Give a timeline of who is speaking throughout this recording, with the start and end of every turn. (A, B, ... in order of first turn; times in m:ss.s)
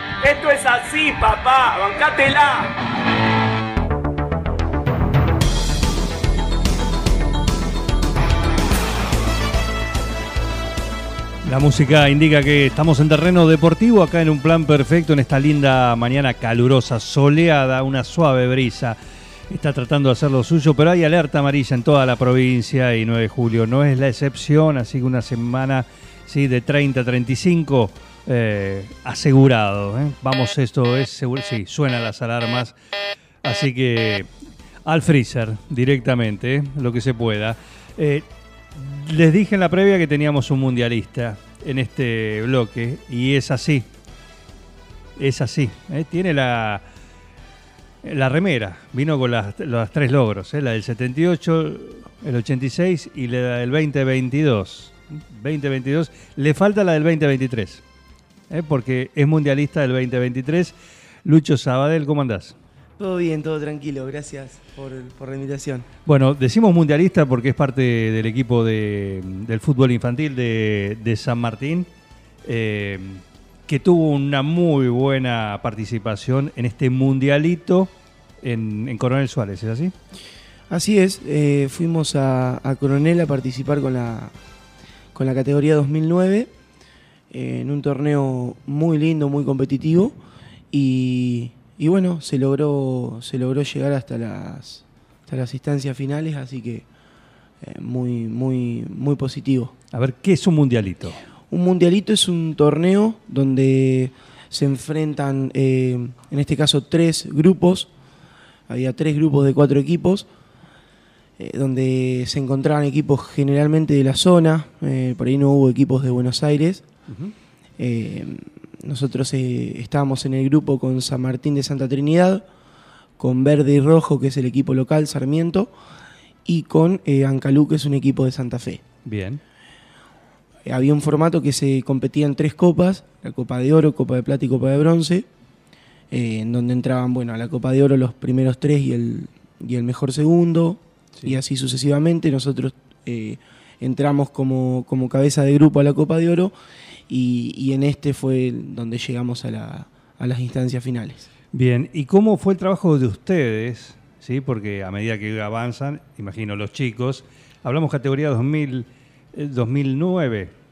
0:00.2-0:02.7 A
0:11.4-0:19.0 B
0:19.5-0:32.7 B
0:33.4-0:34.3 B
0:34.8-0:43.9 B
0:45.2-0:46.8 B
0:48.0-0:57.8 B
0:58.5-1:02.6 B
1:03.0-1:05.8 C
1:06.0-1:11.9 B
1:12.4-1:19.9 B
1:20.7-1:24.3 C
1:25.1-1:26.5 C
1:27.3-1:30.2 C
1:30.7-1:36.8 C
1:37.6-1:39.7 C
1:39.9-1:41.2 B
1:41.5-1:47.9 C
1:48.7-1:50.3 C
1:51.4-1:56.8 C
1:57.1-1:57.3 B
1:57.8-2:02.4 C
2:03.2-2:05.7 C
2:06.4-2:08.8 C
2:09.0-2:09.4 B
2:10.6-2:15.3 C
2:16.1-2:26.5 C
2:27.1-2:31.3 C
2:31.5-2:40.5 B